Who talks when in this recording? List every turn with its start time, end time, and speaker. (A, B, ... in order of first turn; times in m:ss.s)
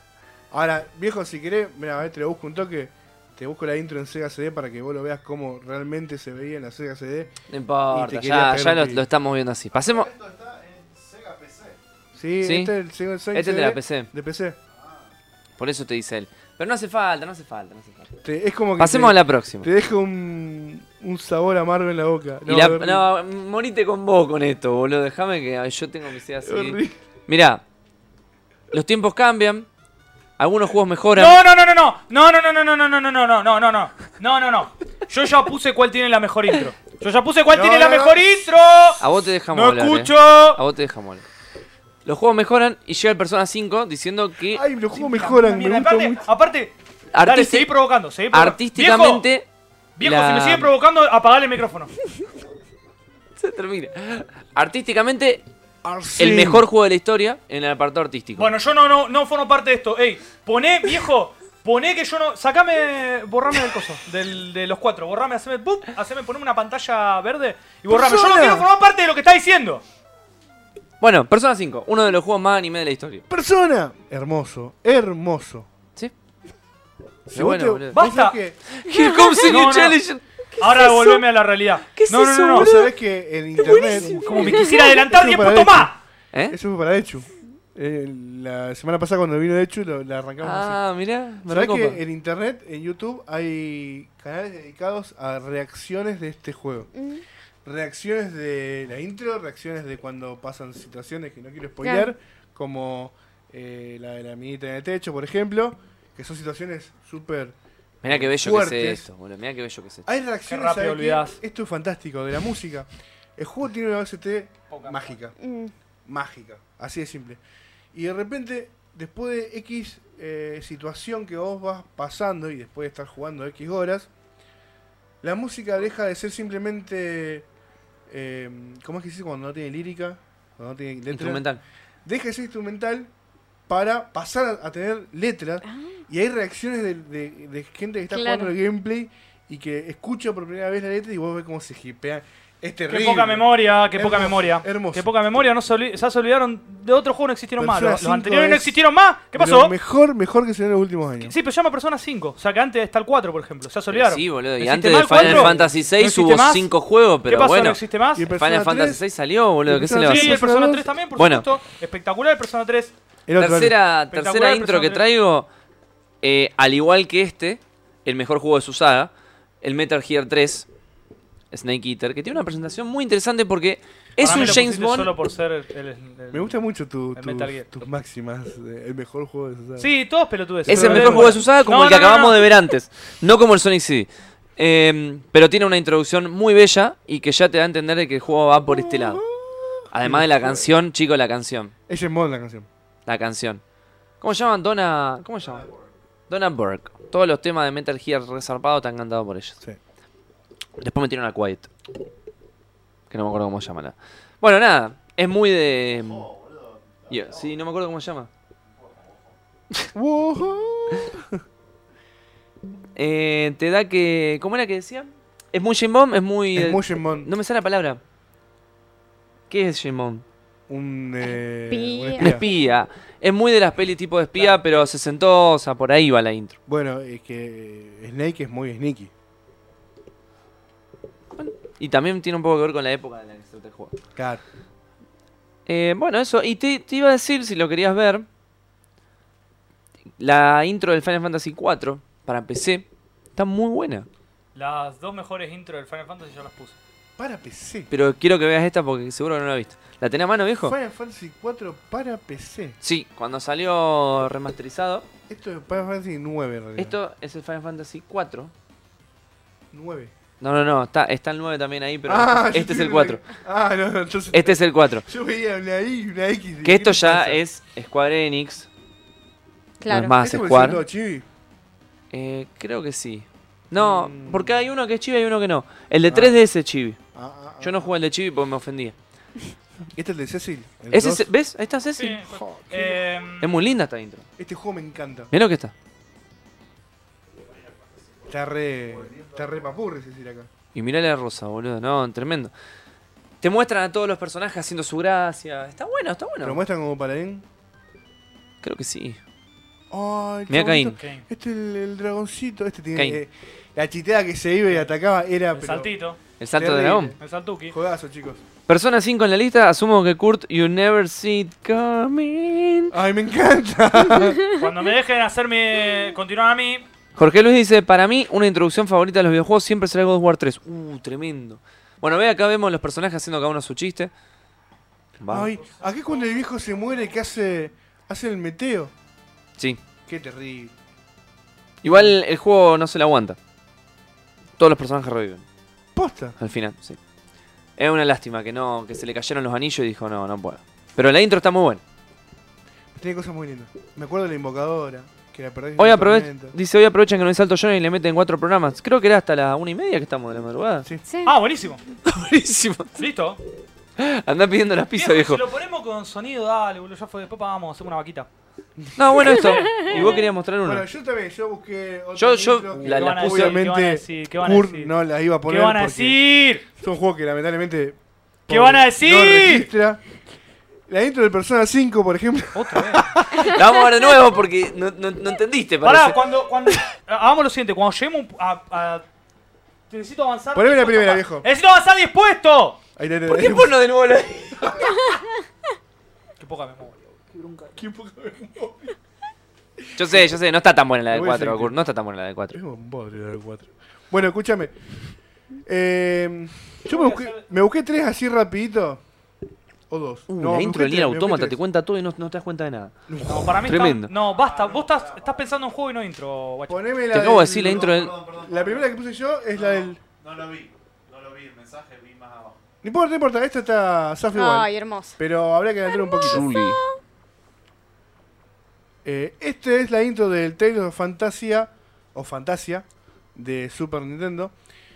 0:00.5-0:07.3 A
0:07.5-0:10.1 B
0:07.9-0:09.0 A
0:09.7-0:11.8 C
0:12.1-0:14.6 A
0:12.4-0:12.7 B
0:13.3-0:14.1 B
0:14.7-0:15.1 C
0:15.6-0:18.2 B
0:18.2-0:23.0 A
0:18.8-0:19.7 B
0:22.4-0:27.6 B
0:26.4-0:26.9 A
0:28.7-0:29.7 B
0:30.4-0:31.4 B
0:31.1-0:40.6 D
0:37.5-0:38.4 A
0:39.0-0:41.2 B
0:42.0-0:44.6 B
0:44.5-0:46.2 A
0:44.9-0:49.2 D
0:47.1-0:47.7 B
0:48.3-0:49.4 B
0:50.0-0:51.9 D
0:50.0-0:50.7 B
0:53.4-0:55.4 B
0:55.8-0:56.6 A
0:56.2-0:58.5 B
0:58.4-1:09.8 D
1:07.9-1:08.7 A
1:11.0-1:13.2 B
1:13.3-1:15.7 A
1:17.2-1:18.6 A
1:17.3-1:18.0 B
1:17.9-1:18.4 D
1:18.7-1:21.2 B
1:18.9-1:19.4 E
1:19.4-1:20.0 D
1:20.6-1:22.7 D
1:21.9-1:22.9 B
1:22.5-1:25.9 A
1:23.5-1:24.7 B
1:24.0-1:26.0 D
1:24.5-1:24.8 E
1:26.5-1:30.8 A
1:30.4-1:32.0 B
1:31.4-1:36.9 A
1:37.0-1:37.2 E
1:37.6-1:49.0 A
1:41.8-1:42.1 E
1:48.0-1:50.0 B
1:50.0-1:55.3 A
1:50.5-1:51.4 D
1:54.7-1:55.2 D
1:55.4-1:55.7 E
1:56.0-1:57.4 A
1:57.9-2:04.1 A
2:05.2-2:07.4 A
2:08.1-2:11.4 A
2:11.1-2:11.6 B
2:12.0-2:13.1 A
2:13.7-2:25.1 A
2:18.1-2:18.5 E
2:22.9-2:29.7 D
2:27.6-2:28.8 A
2:29.3-2:31.3 A
2:31.2-2:36.7 D
2:33.9-2:40.4 B
2:35.1-2:35.7 A
2:37.2-2:38.3 D
2:38.2-2:39.0 A
2:39.6-2:40.9 A
2:40.0-2:42.9 D
2:41.2-2:41.5 B
2:43.3-2:43.8 A
2:43.4-2:45.5 B
2:44.1-2:45.0 D
2:46.2-2:50.7 B
2:51.5-2:55.1 B
2:54.2-2:56.6 D
2:56.3-2:59.9 A
2:57.1-2:57.7 D
2:59.8-3:02.4 D
3:00.6-3:01.4 A
3:00.7-3:09.2 B
3:08.7-3:10.7 A
3:09.9-3:11.7 B
3:11.9-3:12.7 A
3:13.0-3:13.6 B
3:14.2-3:15.7 B
3:15.4-3:15.9 C
3:16.3-3:19.6 B
3:20.8-3:21.7 B
3:23.1-3:26.3 B
3:25.8-3:27.6 C
3:27.1-3:28.3 B
3:28.6-3:29.4 C
3:29.9-3:31.4 A
3:32.9-3:38.0 B
3:36.5-3:37.3 A
3:39.5-3:40.2 B
3:40.7-3:42.4 A
3:41.2-3:42.4 E
3:42.2-3:46.6 B
3:44.3-3:44.9 D
3:46.7-3:49.1 A
3:51.3-3:54.0 B
3:54.1-3:54.4 A
3:55.6-3:58.2 B
4:00.2-4:04.1 B
4:04.5-4:06.7 D
4:07.2-4:07.9 A
4:07.9-4:10.8 B
4:10.6-4:12.8 A
4:12.8-4:15.1 B
4:15.3-4:17.0 A
4:16.8-4:18.5 B
4:19.7-4:20.1 A
4:20.4-4:23.2 B
4:22.0-4:27.4 A
4:24.3-4:25.0 B
4:26.6-4:28.7 B
4:29.8-4:30.1 E
4:29.9-4:30.8 B
4:30.1-4:31.2 A
4:32.1-4:37.0 B
4:33.8-4:34.6 A
4:36.1-4:36.4 A
4:37.1-4:37.9 A
4:37.6-4:38.9 B
4:39.9-4:41.3 A
4:40.9-4:42.2 B
4:42.0-4:43.6 D
4:42.3-4:43.0 A
4:43.4-4:44.3 B
4:44.4-4:45.3 A
4:45.3-4:45.7 B
4:47.4-4:49.8 C
4:48.3-4:50.5 A
4:50.7-4:52.5 B
4:53.4-4:56.6 B
4:56.4-4:57.4 A
4:58.6-4:59.2 B
4:59.9-5:05.9 A
5:00.5-5:01.0 B
5:01.0-5:01.2 D
5:02.9-5:03.2 B
5:05.5-5:06.2 D
5:06.4-5:07.1 B
5:06.5-5:07.2 A
5:07.2-5:07.7 D
5:07.7-5:08.4 A
5:08.7-5:12.9 B
5:12.9-5:14.4 A
5:14.5-5:16.8 D
5:17.2-5:24.1 B
5:25.2-5:25.5 B
5:25.3-5:28.9 A
5:30.1-5:30.7 A
5:31.8-5:33.4 B
5:34.6-5:35.4 B
5:35.9-5:36.4 A
5:36.4-5:37.0 B
5:37.8-5:41.8 B
5:42.9-5:46.5 A
5:45.8-5:50.8 B
5:51.0-5:51.3 E
5:51.2-5:51.8 D
5:52.0-5:53.0 B
5:53.0-5:53.4 D
5:54.0-5:55.4 B
5:54.9-5:58.3 D
5:58.8-5:59.4 A
5:59.0-6:00.8 B
5:59.4-6:00.0 E
5:59.6-6:00.2 D
5:59.9-6:06.2 A
6:02.2-6:03.6 B
6:02.8-6:04.9 D
6:05.5-6:06.6 D
6:06.8-6:10.0 A
6:08.5-6:09.7 D
6:10.9-6:13.5 A
6:12.5-6:13.1 D
6:13.3-6:16.8 B
6:15.8-6:19.0 D
6:19.9-6:22.8 D
6:20.5-6:21.5 A
6:23.0-6:23.8 A
6:23.3-6:24.9 B
6:26.4-6:27.8 D
6:27.8-6:29.0 A
6:29.8-6:30.3 A
6:30.0-6:32.6 B
6:31.1-6:31.8 A
6:32.5-6:34.7 A
6:35.6-6:39.0 A
6:36.8-6:37.4 D
6:39.9-6:41.6 A
6:40.3-6:42.9 B
6:43.1-6:43.7 A
6:43.2-6:46.8 D
6:43.6-6:44.1 B
6:44.2-6:45.5 C
6:46.7-6:50.0 A
6:47.1-6:48.1 B
6:47.4-6:49.0 C
6:49.5-6:52.6 C
6:52.8-6:56.5 A
6:54.3-6:55.2 E
6:56.1-6:56.8 E
6:56.2-6:56.8 B
6:59.0-7:04.5 A